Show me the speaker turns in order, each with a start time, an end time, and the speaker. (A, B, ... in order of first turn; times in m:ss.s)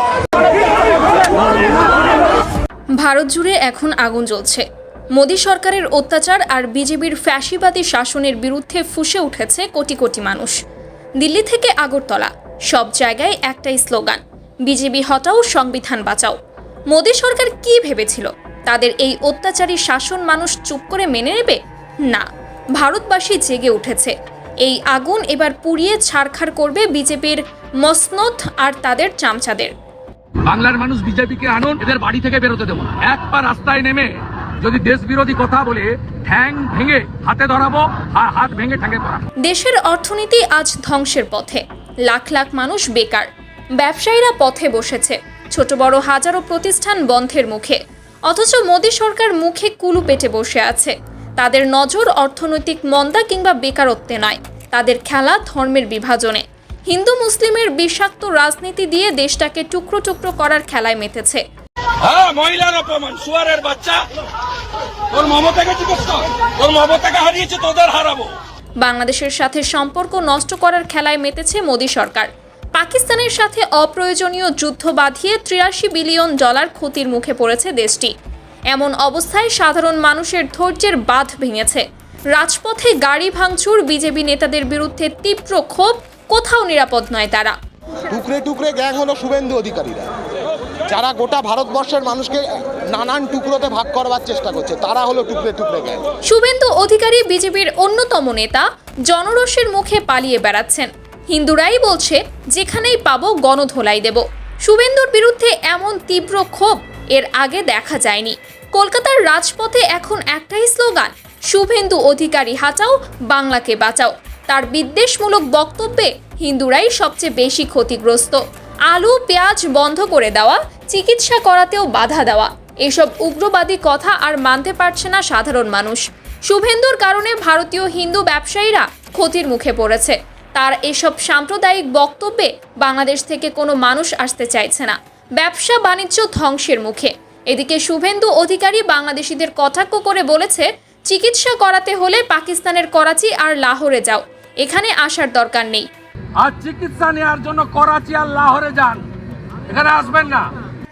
0:03.0-0:04.6 A
0:05.2-0:10.6 A
0:11.2-0:16.4 A
0:16.9-0:24.1 A
0:24.6-0:29.7 A
0:30.4-0:39.2 B
0:39.4-1:01.4 A
1:02.0-1:04.0 B
1:05.1-1:08.3 B
1:08.8-1:18.1 A
1:18.7-1:21.8 A
1:22.4-1:27.6 A
1:28.1-1:30.2 C
1:30.9-1:36.1 C
1:36.3-2:25.9 A
2:26.4-2:29.1 B
2:29.7-2:30.5 B